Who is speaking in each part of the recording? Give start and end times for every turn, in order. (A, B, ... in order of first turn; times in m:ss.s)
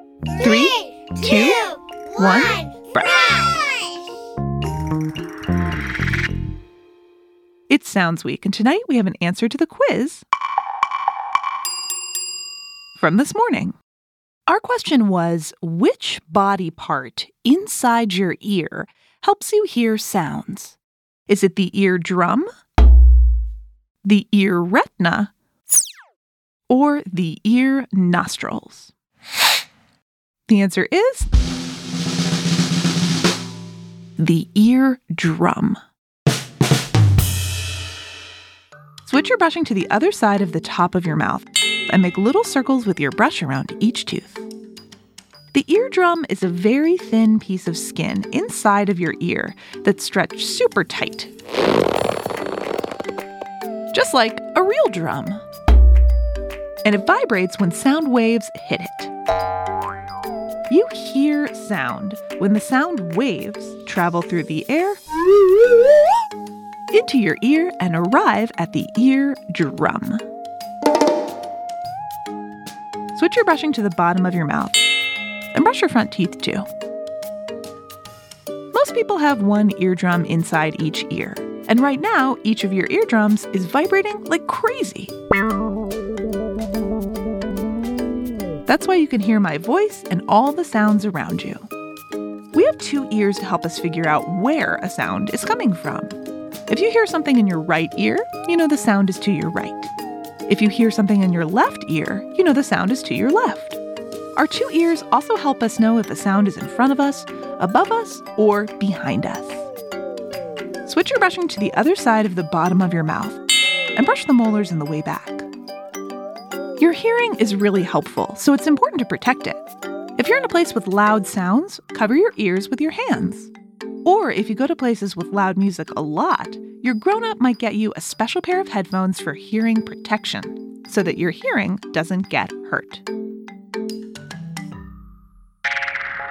0:00.4-0:03.6 A
0:07.7-0:10.2 A
0:13.0-0:13.8 A
0:14.5-0:22.5 A
0:24.0-0:25.3 A
0:26.7-0:28.9 A
0:30.5-0:31.3 A
0:34.2-0:35.8 A
0:39.0-0:44.5 A
0:45.5-0:51.3 A
0:53.9-0:55.4 A
0:56.8-0:59.1 A
1:00.7-1:05.0 A
1:06.9-1:10.2 A
1:13.2-1:14.8 A
1:15.5-1:16.7 A
1:18.7-1:25.1 A
1:28.7-1:31.7 A
1:32.5-1:36.2 A
1:36.7-1:39.9 A
1:40.5-1:43.8 A
1:44.4-1:49.7 A
1:50.9-1:53.4 A
1:54.0-1:55.5 A
1:56.8-2:03.5 A
2:04.0-2:13.0 A